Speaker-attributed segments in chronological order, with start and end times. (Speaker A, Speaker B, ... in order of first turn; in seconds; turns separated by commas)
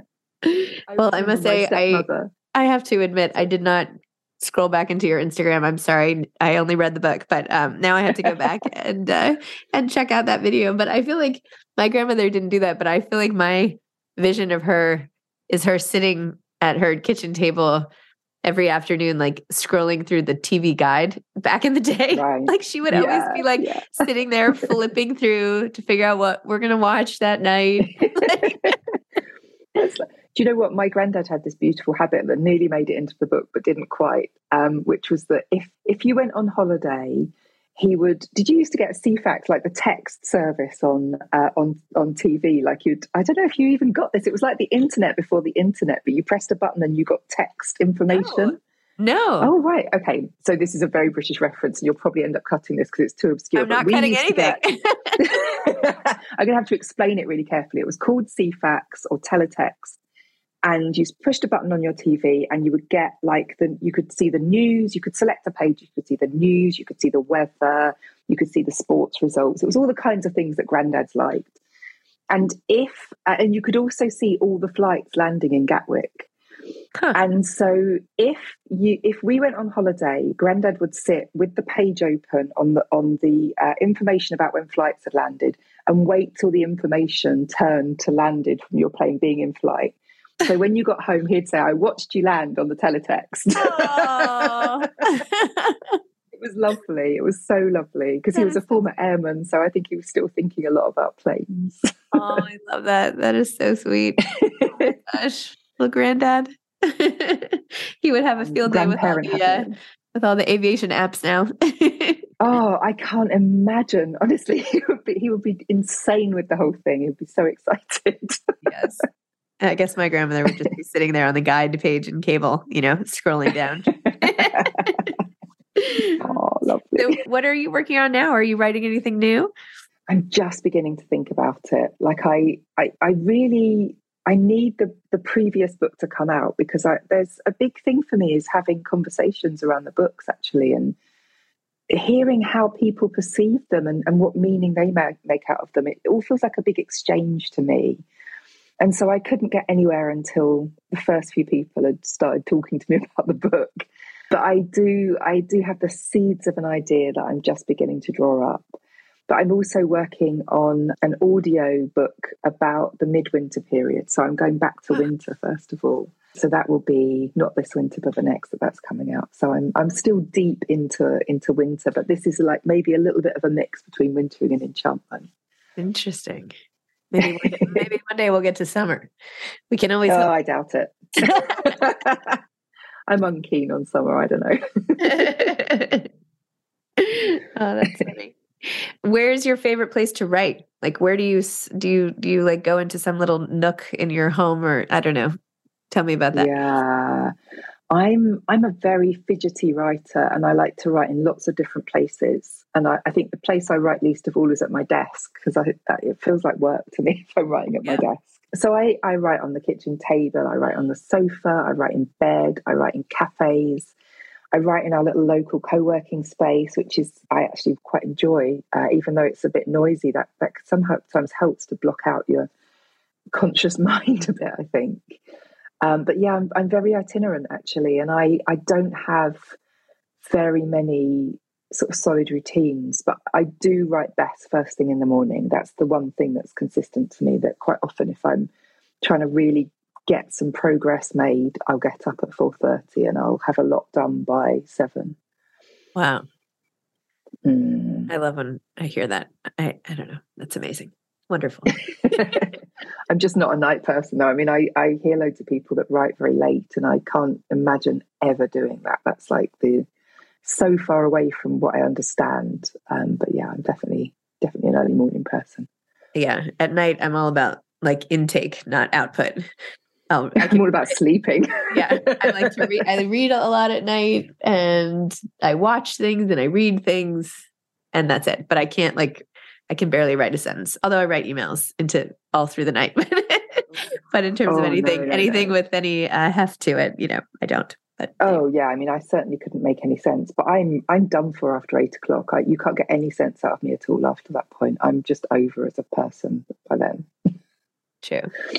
Speaker A: 0.5-17.9, Speaker B: 0.9-2.3, Speaker A: 18.4-28.7, Speaker B: 22.1-24.1, Speaker B: 28.0-28.8, Speaker B: 29.7-48.6, Speaker A: 48.1-49.5, Speaker B: 49.4-54.6, Speaker A: 53.5-55.3, Speaker B: 55.2-60.0, Speaker B: 60.6-71.5, Speaker B: 72.3-76.3, Speaker B: 77.1-94.7, Speaker A: 93.5-96.0, Speaker B: 96.3-102.4, Speaker A: 98.3-98.6, Speaker A: 102.1-104.2, Speaker B: 104.3-105.0, Speaker A: 105.1-112.3, Speaker B: 108.4-109.8, Speaker B: 112.4-118.5, Speaker A: 118.6-119.0, Speaker A: 119.6-125.1, Speaker B: 124.0-125.1, Speaker A: 125.8-126.2, Speaker B: 126.2-127.2, Speaker A: 126.9-129.5, Speaker B: 130.1-140.9, Speaker B: 141.9-148.0, Speaker B: 148.8-158.8, Speaker B: 159.3-175.3, Speaker A: 175.8-176.5, Speaker A: 177.1-179.1, Speaker B: 177.2-177.8, Speaker A: 179.7-180.3, Speaker B: 180.1-182.4, Speaker B: 183.1-185.5, Speaker A: 185.0-186.1, Speaker A: 187.0-195.3, Speaker A: 195.9-196.6, Speaker B: 196.3-197.3, Speaker B: 197.9-213.9, Speaker B: 214.5-222.5, Speaker B: 223.3-225.2, Speaker B: 225.8-229.5, Speaker B: 230.2-238.5, Speaker B: 239.0-245.2, Speaker A: 245.9-246.2, Speaker B: 247.4-248.1, Speaker A: 248.1-251.8, Speaker B: 251.9-252.6, Speaker B: 253.1-259.9, Speaker B: 260.4-265.7, Speaker A: 266.1-269.5, Speaker A: 270.1-270.6, Speaker B: 270.4-272.7, Speaker A: 271.7-277.4, Speaker A: 277.9-288.4, Speaker B: 284.4-285.5, Speaker B: 288.2-297.1, Speaker A: 298.0-298.3